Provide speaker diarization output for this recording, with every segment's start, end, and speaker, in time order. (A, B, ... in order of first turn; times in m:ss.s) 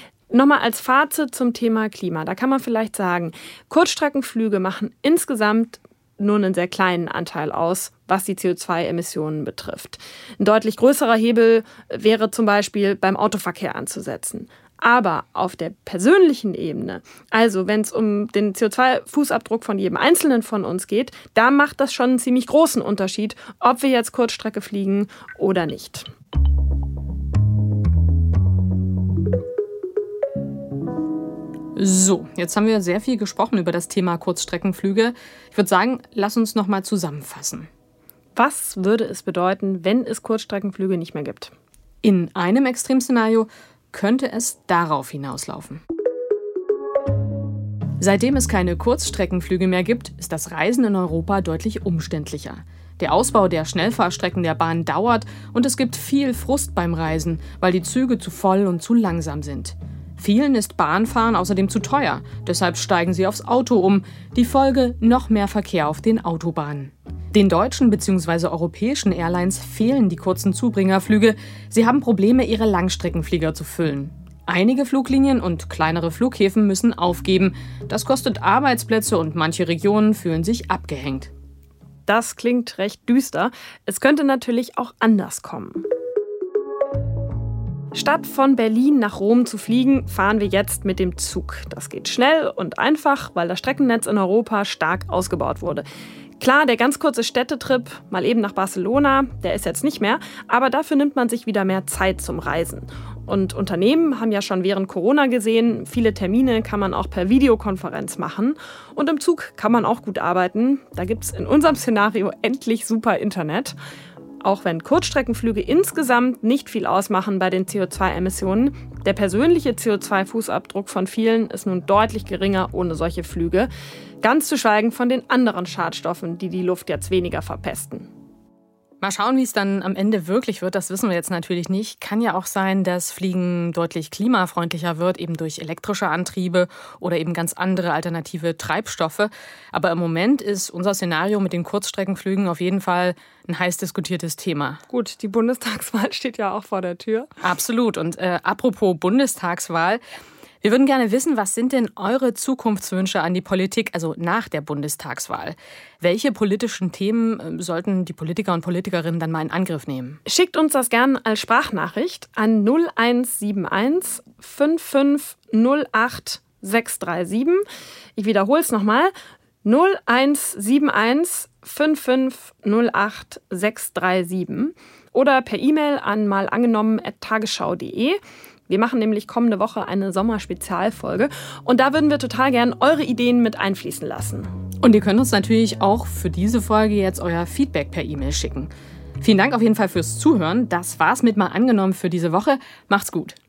0:00.3-0:26.1 A
0:31.8-0:37.7 B
0:38.4-0:41.5 A
0:42.0-0:45.8 B
0:48.0-1:21.3 B
1:22.1-1:25.8 A
1:27.9-1:35.8 A
1:36.4-1:53.8 A
1:54.4-2:03.7 A
2:04.2-2:08.1 A
2:09.0-2:24.8 B
2:24.9-2:27.3 A
2:27.4-2:30.0 B
2:30.6-2:40.2 B
2:40.3-2:47.6 A
2:48.2-2:49.1 A
2:49.6-3:04.5 A
3:04.8-3:13.4 B